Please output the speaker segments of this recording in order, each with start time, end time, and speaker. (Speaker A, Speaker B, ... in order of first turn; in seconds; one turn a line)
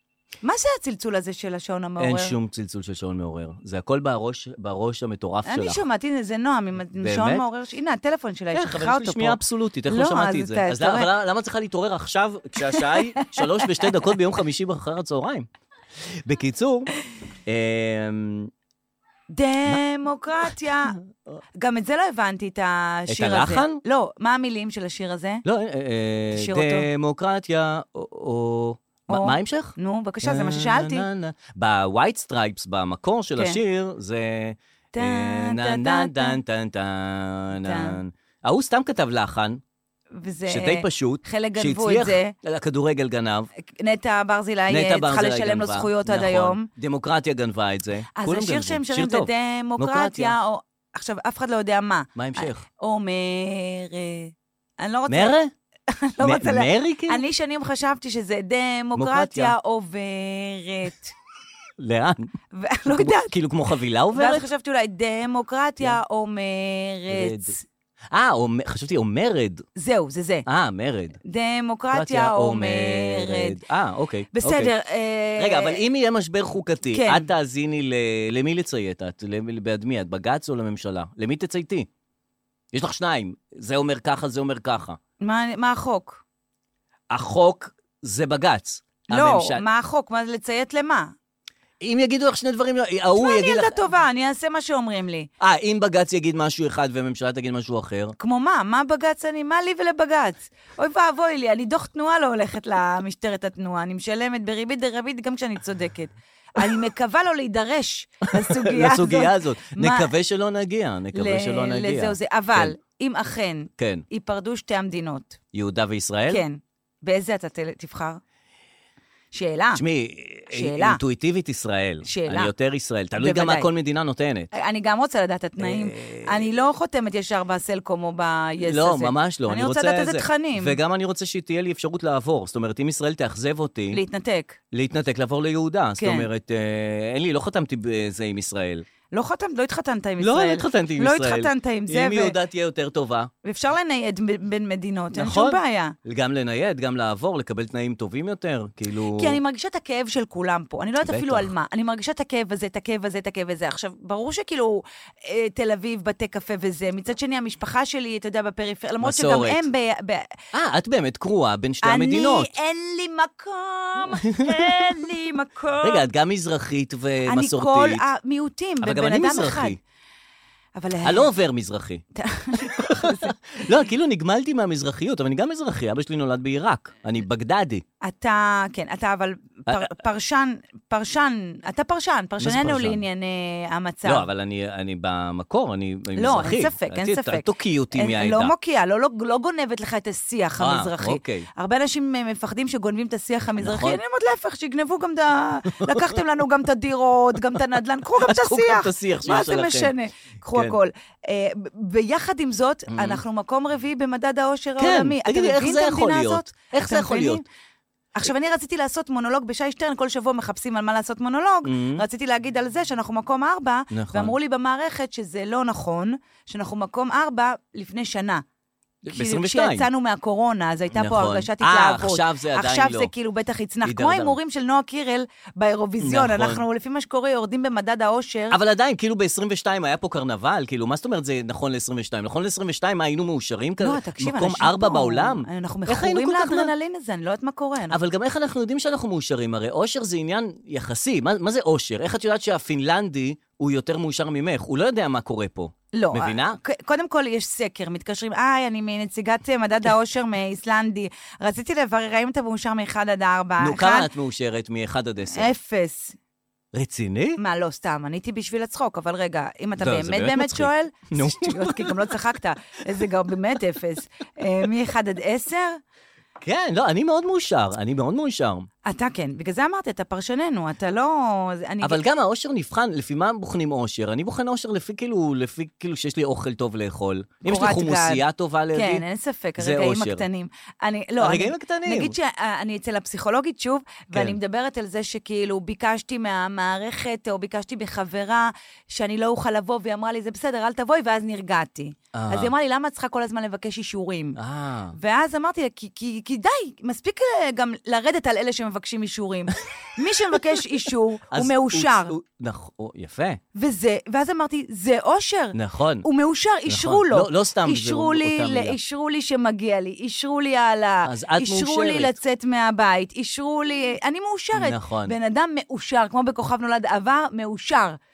Speaker A: 0.4-2.4
Speaker B: 2.0-5.8
Speaker A: 5.5-11.1
Speaker B: 7.0-7.4
Speaker B: 8.5-15.5
Speaker A: 12.6-14.0
Speaker B: 16.2-16.9
Speaker B: 17.5-18.5
Speaker A: 19.3-21.0
Speaker A: 21.6-25.4
Speaker B: 23.1-23.8
Speaker B: 25.4-39.6
Speaker A: 26.3-26.9
Speaker A: 29.1-31.1
Speaker A: 34.9-36.4
Speaker A: 37.6-38.0
Speaker A: 40.1-42.4
Speaker B: 40.5-43.5
Speaker A: 43.6-46.7
Speaker B: 44.7-50.4
Speaker A: 48.1-55.4
Speaker B: 52.1-52.7
Speaker B: 55.1-55.5
Speaker A: 55.9-61.1
Speaker B: 56.2-57.2
Speaker B: 59.0-59.5
Speaker B: 61.8-62.3
Speaker A: 62.5-63.3
Speaker B: 62.9-64.5
Speaker A: 64.1-67.6
Speaker B: 67.1-67.5
Speaker B: 68.1-69.7
Speaker A: 69.8-70.5
Speaker B: 70.5-71.2
Speaker A: 71.2-73.6
Speaker B: 71.9-74.7
Speaker A: 74.3-75.8
Speaker B: 75.4-81.9
Speaker A: 76.9-77.3
Speaker B: 82.7-85.0
Speaker A: 85.2-86.2
Speaker B: 87.1-89.6
Speaker A: 89.1-91.1
Speaker B: 91.8-93.8
Speaker A: 93.2-95.3
Speaker B: 95.4-98.2
Speaker A: 98.2-110.1
Speaker B: 108.4-112.8
Speaker A: 111.1-115.4
Speaker B: 113.8-114.0
Speaker B: 115.5-116.4
Speaker A: 116.3-118.2
Speaker A: 119.3-119.8
Speaker B: 119.8-124.5
Speaker A: 120.5-121.0
Speaker A: 122.0-122.5
Speaker A: 123.2-123.7
Speaker A: 124.5-130.8
Speaker B: 125.6-126.5
Speaker B: 128.6-134.0
Speaker A: 133.9-134.6
Speaker B: 134.7-138.9
Speaker A: 136.0-136.3
Speaker A: 139.1-142.4
Speaker B: 140.2-143.3
Speaker A: 143.4-145.9
Speaker B: 145.1-149.4
Speaker A: 149.2-160.4
Speaker B: 151.0-151.5
Speaker B: 159.0-159.7
Speaker B: 160.5-162.5
Speaker A: 161.8-166.0
Speaker B: 164.2-165.0
Speaker B: 165.8-168.1
Speaker A: 167.3-169.8
Speaker B: 168.8-169.8
Speaker A: 170.8-171.3
Speaker B: 171.0-172.0
Speaker A: 172.2-173.3
Speaker B: 172.6-177.8
Speaker A: 178.0-184.3
Speaker B: 182.4-183.0
Speaker B: 184.1-188.5
Speaker A: 186.2-207.4
Speaker B: 190.6-191.5
Speaker B: 193.6-194.0
Speaker B: 195.7-196.2
Speaker B: 198.2-199.9
Speaker B: 200.5-200.8
Speaker B: 202.9-203.2
Speaker B: 204.8-207.4
Speaker A: 208.2-218.4
Speaker B: 211.6-212.0
Speaker B: 213.9-214.4
Speaker B: 219.0-219.9
Speaker A: 219.1-228.6
Speaker B: 220.9-223.1
Speaker B: 223.8-224.4
Speaker B: 226.0-226.6
Speaker B: 228.5-236.7
Speaker A: 233.8-238.0
Speaker B: 237.9-246.6
Speaker A: 245.9-254.1
Speaker B: 253.6-255.5
Speaker A: 255.3-256.2
Speaker B: 256.7-257.4
Speaker A: 257.4-265.8
Speaker B: 259.8-262.1
Speaker B: 266.4-268.7
Speaker A: 268.9-272.0
Speaker B: 271.8-279.1
Speaker A: 277.4-294.4
Speaker B: 279.6-280.2
Speaker B: 281.2-282.1
Speaker B: 284.1-284.4
Speaker B: 292.1-292.5
Speaker B: 294.4-294.9
Speaker A: 294.9-302.1
Speaker B: 301.3-303.4
Speaker A: 303.6-318.0
Speaker B: 305.5-306.1
Speaker B: 306.7-308.8
Speaker B: 311.0-312.1
Speaker B: 314.6-315.2